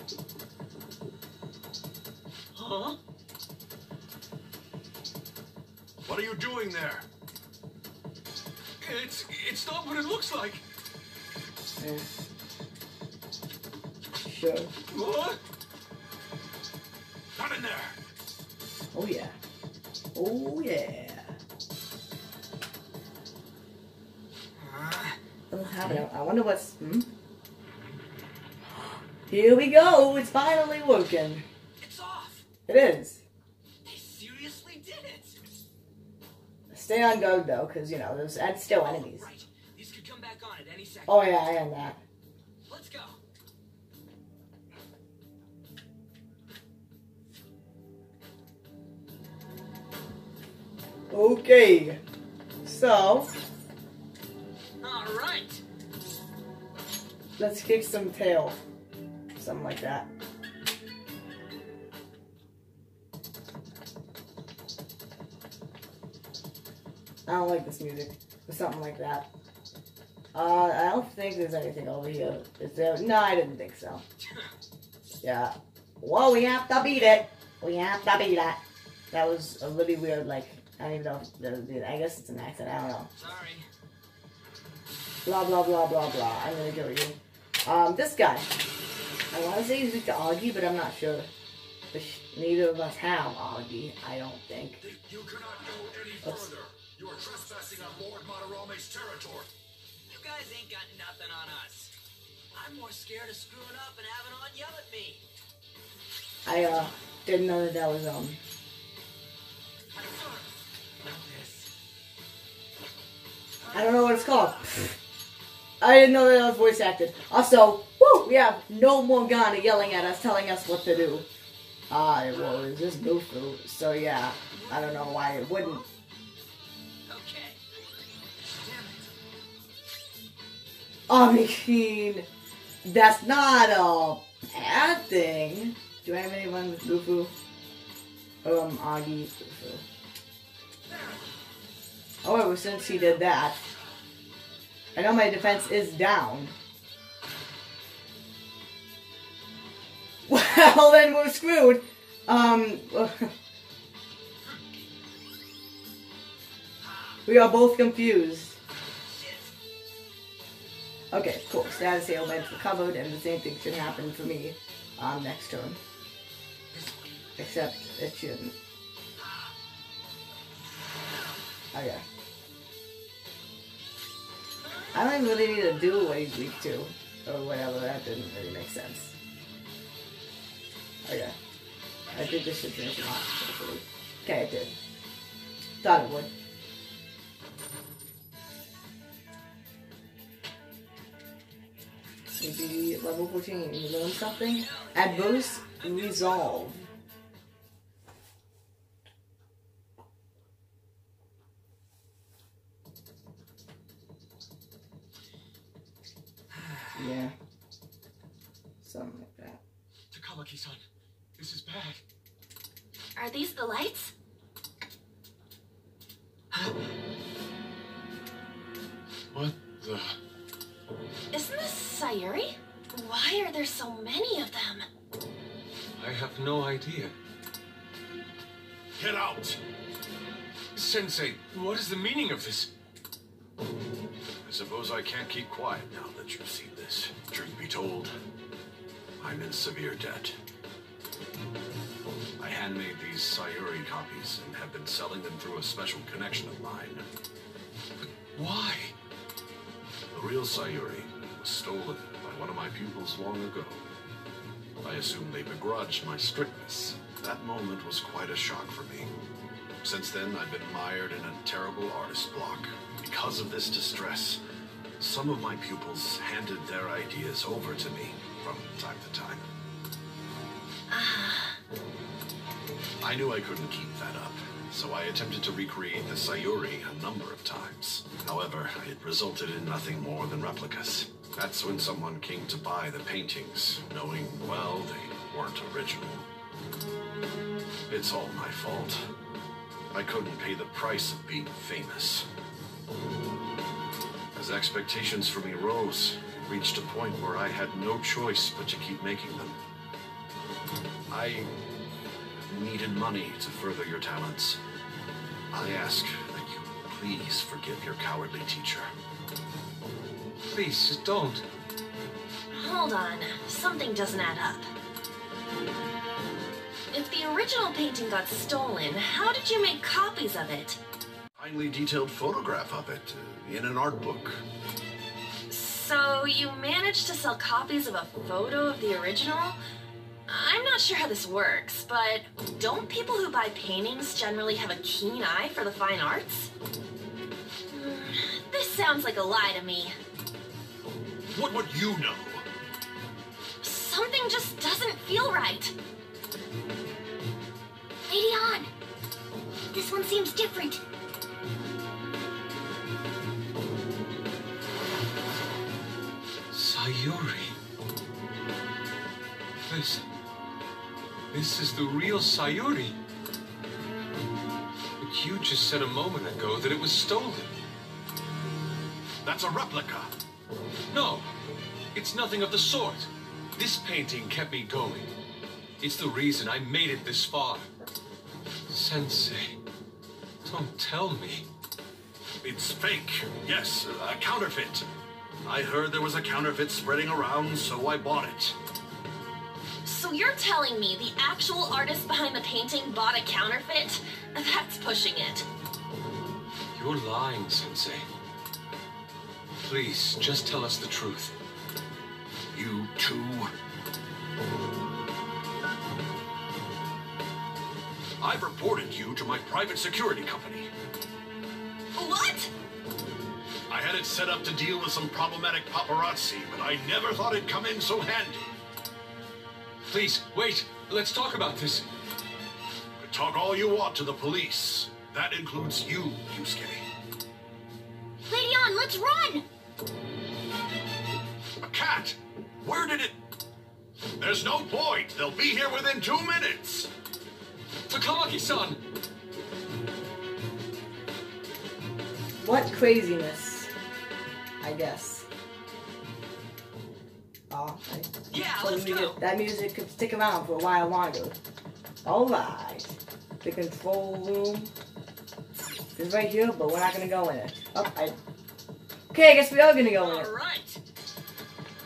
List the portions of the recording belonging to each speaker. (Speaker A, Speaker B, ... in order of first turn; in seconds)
Speaker A: 2.5-3.0, 8.8-10.6, 14.9-15.4, 210.1-210.8, 211.4-212.0, 219.3-220.2, 226.0-227.1, 230.7-232.7, 248.0-248.9, 310.5-311.4, 356.5-357.6, 359.7-360.0, 361.3-363.0, 365.0-367.5, 370.9-371.3, 371.9-375.1, 375.8-377.7, 378.7-379.6, 380.4-381.4, 396.8-398.1, 399.6-401.4, 419.9-421.9, 437.9-438.8
Speaker B: 6.0-7.0, 17.4-18.0, 94.8-99.5, 229.0-229.6, 234.4-238.1, 239.2-240.4, 242.4-247.1, 250.1-253.8, 254.8-259.1, 259.8-264.4, 265.0-269.4, 273.0-286.3, 287.9-289.0, 289.9-292.3, 294.4-299.6, 301.1-301.5, 302.5-304.6, 305.5-308.9, 321.4-324.4, 341.3-342.4, 369.2-370.1, 382.4-384.9, 385.4-388.6, 402.5-403.5, 408.2-410.7, 413.7-418.5, 423.0-426.9, 431.6-433.1, 434.2-436.9
Speaker C: 11.8-12.1, 14.2-14.7, 18.9-19.4, 20.1-21.4, 25.5-27.1, 29.3-31.4, 32.7-33.2, 36.7-39.3, 41.1-42.0, 51.1-52.0, 52.6-53.3, 57.4-58.6, 59.4-60.1, 67.3-69.3, 70.3-74.0, 75.2-83.1, 85.3-88.5, 89.3-91.3, 91.9-94.8, 96.2-96.5, 106.5-108.4, 113.7-115.0, 115.8-121.3, 121.9-125.8, 131.1-132.3, 132.8-137.3, 138.4-139.8, 142.2-143.6, 144.9-146.5, 150.3-153.3, 157.3-158.6, 161.1-165.8, 167.4-168.6, 171.7-172.0, 174.9-179.2, 181.1-181.4, 182.1-184.8, 185.8-186.3, 192.4-196.8, 206.9-207.3, 208.8-209.6, 442.4-443.7, 444.6-445.3, 447.5-451.4, 452.0-454.7, 456.0-458.2, 459.1-460.3
Speaker D: 24.6-25.2, 31.8-32.5, 33.8-35.4, 38.7-41.3, 42.7-43.2, 54.8-55.6, 74.2-74.5, 83.2-83.7, 100.1-101.9, 102.5-105.2, 109.9-110.5, 111.0-111.7, 124.5-125.9, 127.1-127.6, 128.5-129.1, 159.1-159.5, 166.7-167.1, 194.6-196.9, 206.5-207.0, 448.3-449.2, 460.0-460.8
Speaker E: 213.2-214.1, 221.3-224.9, 270.9-271.6, 312.5-314.7, 316.9-320.8, 325.5-329.6, 330.3-336.5, 337.7-340.0, 343.6-345.8, 389.9-395.5, 412.0-412.5
Speaker F: 348.1-348.7, 349.7-350.8, 428.3-429.4